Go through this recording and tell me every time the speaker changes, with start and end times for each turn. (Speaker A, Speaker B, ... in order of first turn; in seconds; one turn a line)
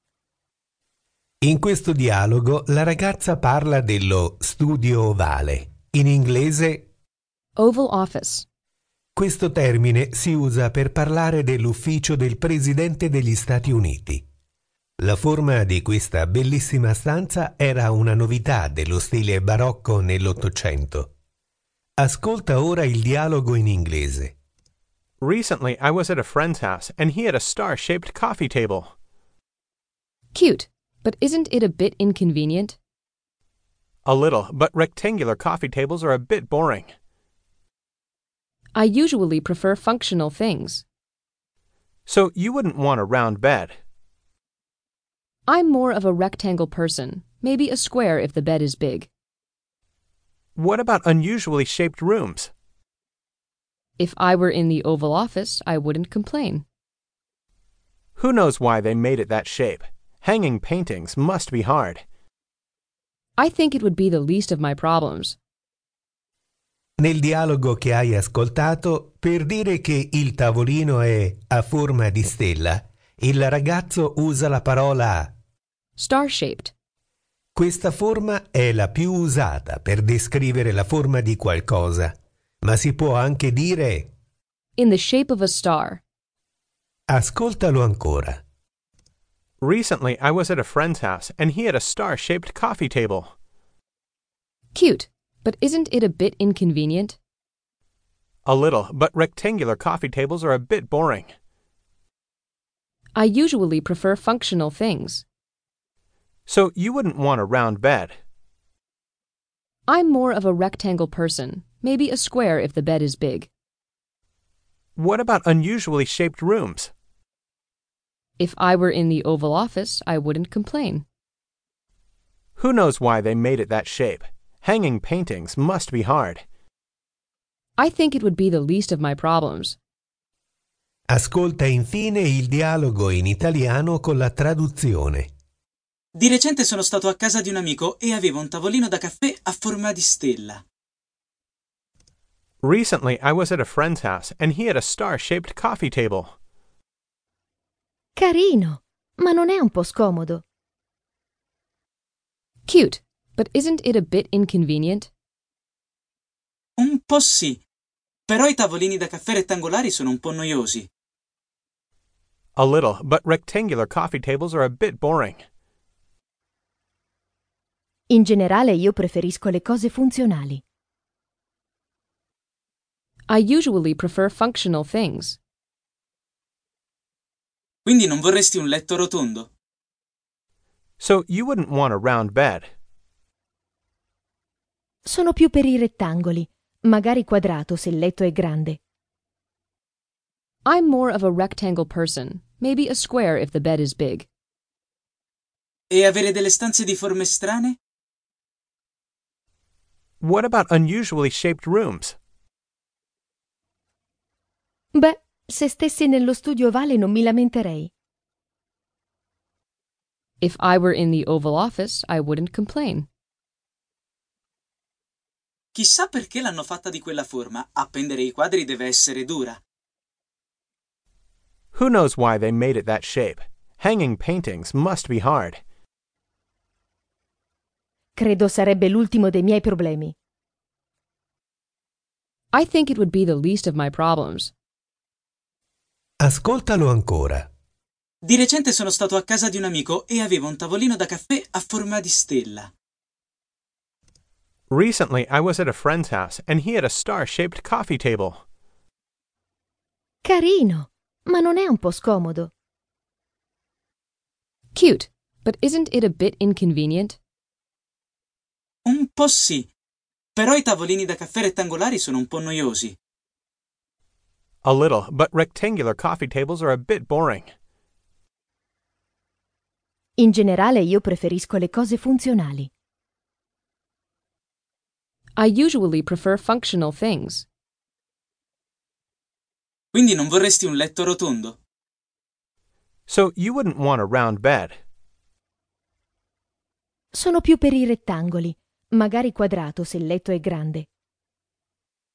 Speaker A: 1.4-6.8
Speaker B: 7.5-8.4
Speaker A: 9.2-14.2
Speaker A: 15.0-21.1
Speaker A: 22.0-24.3
Speaker C: 25.2-28.9
Speaker B: 30.3-32.8
Speaker C: 34.0-36.9
Speaker B: 38.7-40.8
Speaker C: 42.1-43.8
Speaker B: 45.5-49.1
Speaker C: 50.5-52.5
Speaker B: 54.0-56.6
Speaker C: 58.2-62.0
Speaker B: 63.4-65.4
Speaker A: 67.0-75.3
Speaker B: 76.0-76.7
Speaker A: 77.5-84.1
Speaker B: 84.8-86.0
Speaker A: 87.1-88.4
Speaker C: 89.6-93.3
Speaker B: 94.7-97.2
Speaker C: 98.4-101.3
Speaker B: 103.1-105.2
Speaker C: 106.5-108.2
Speaker B: 109.9-113.5
Speaker C: 115.0-116.9
Speaker B: 118.4-121.0
Speaker C: 122.6-126.4
Speaker B: 127.8-129.8
Speaker A: 131.1-135.3
Speaker D: 136.2-140.6
Speaker C: 142.6-146.3
Speaker E: 148.2-150.4
Speaker B: 152.7-155.1
Speaker D: 156.8-157.6
Speaker D: 158.3-160.9
Speaker C: 162.6-165.4
Speaker E: 168.1-170.6
Speaker B: 173.3-175.4
Speaker D: 177.8-179.5
Speaker C: 181.0-182.7
Speaker E: 185.0-188.8
Speaker B: 190.7-194.3
Speaker D: 195.9-197.8
Speaker C: 200.2-202.2
Speaker E: 204.9-207.9
Speaker B: 210.4-213.1
Speaker D: 215.7-219.6
Speaker C: 221.7-225.6
Speaker E: 228.2-230.1
Speaker B: 232.5-234.5
Speaker A: 236.2-237.5
Speaker D: 238.2-242.7
Speaker C: 244.7-248.4
Speaker E: 250.2-252.5
Speaker B: 254.7-257.2
Speaker D: 258.9-259.7
Speaker D: 260.4-263.0
Speaker C: 264.6-267.5
Speaker E: 270.2-272.7
Speaker B: 275.4-277.4
Speaker D: 279.9-281.6
Speaker C: 283.1-284.8
Speaker E: 287.1-290.9